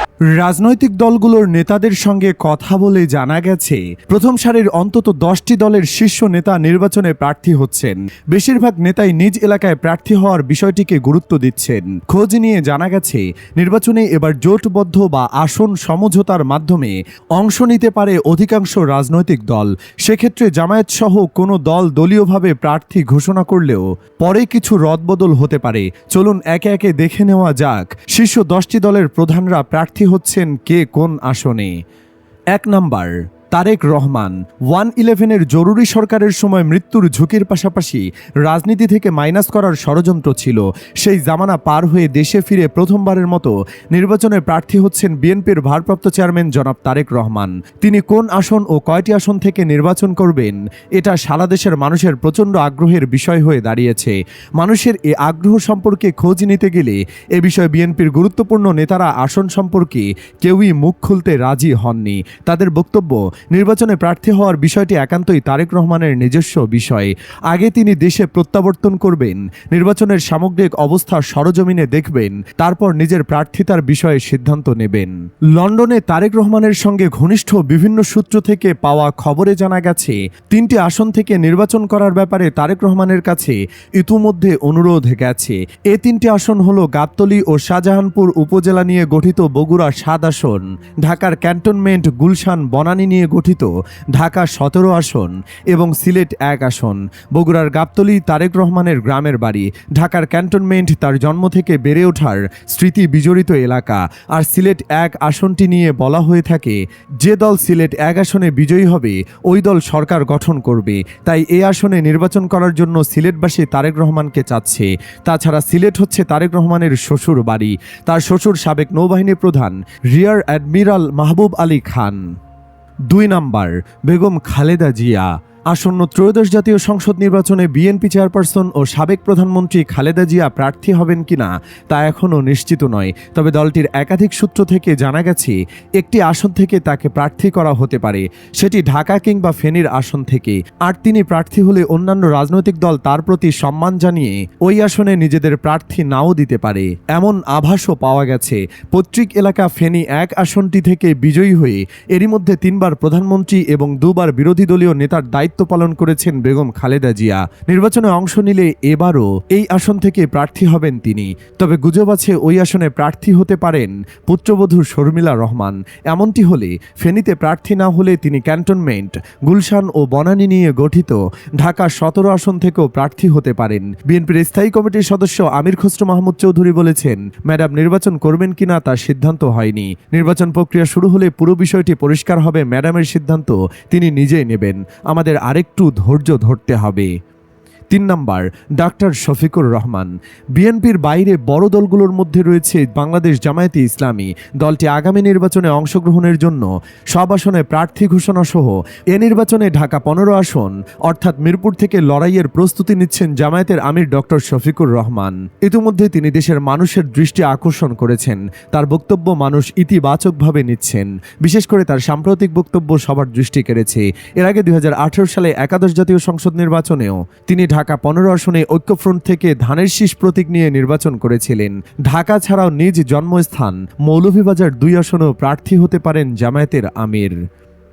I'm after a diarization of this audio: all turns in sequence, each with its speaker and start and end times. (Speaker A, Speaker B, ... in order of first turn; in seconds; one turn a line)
Speaker A: 0.4-31.7
Speaker A: 32.5-122.2
Speaker A: 123.1-187.1
Speaker A: 187.9-227.3